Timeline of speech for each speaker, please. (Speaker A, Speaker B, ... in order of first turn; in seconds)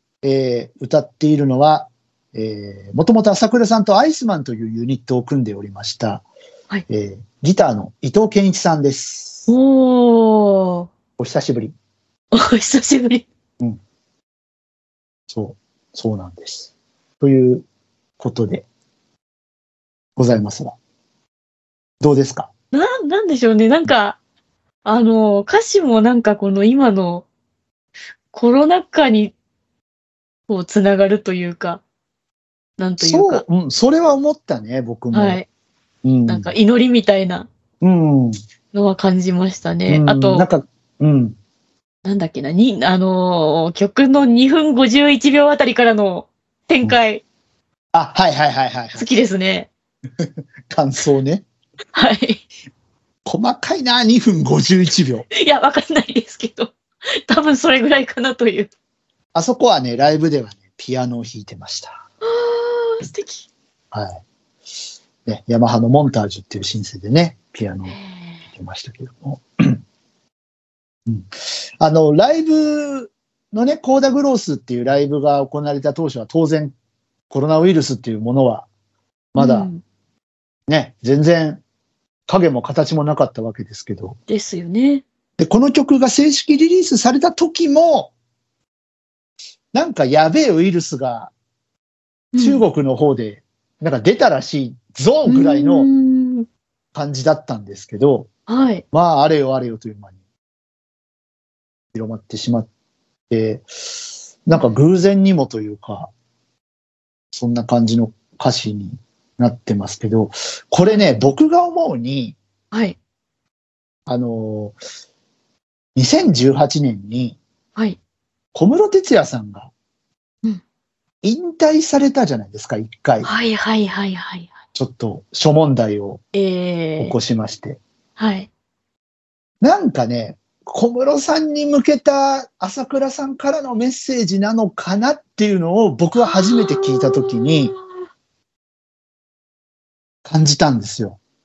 Speaker A: 0.2-6.3, 6.9-9.5, 11.2-11.7, 15.3-17.6, 18.2-18.7, 20.2-20.8, 22.0-22.5, 33.0-35.4, 36.0-36.5, 37.8-38.4, 39.9-41.4, 47.9-49.1, 50.2-51.5, 53.3-55.3, 59.3-62.0, 63.9-64.2, 65.3-68.0, 68.5-69.8, 71.8-76.7, 77.3-78.7, 79.3-79.7, 80.7-81.6, 82.3-84.2, 85.4-88.1, 89.7-91.3, 92.4-95.9, 96.9-98.3, 98.9-100.1, 101.9-102.7, 103.3-103.7, 104.5-106.1, 107.3-112.4, 114.1-114.8, 116.0-117.4, 118.5-119.7, 121.2-123.3, 124.8-126.2, 127.0-127.8, 129.6-137.7, 140.2-141.2
Speaker B: 9.5-10.9, 12.3-13.2, 22.7-24.2, 24.9-27.3, 28.3-29.3, 30.5-31.8, 32.8-33.4, 35.1-35.5, 36.3-37.5, 38.7-40.5, 42.0-47.2, 49.0-49.7, 51.9-52.4, 55.3-58.7, 62.2-63.5, 67.9-68.5, 79.4-79.8, 84.3-85.0, 92.3-92.6, 95.3-96.5, 98.5-98.8, 110.8-111.3, 112.7-113.0, 123.2-124.5, 126.3-127.2, 128.2-128.5, 136.2-138.0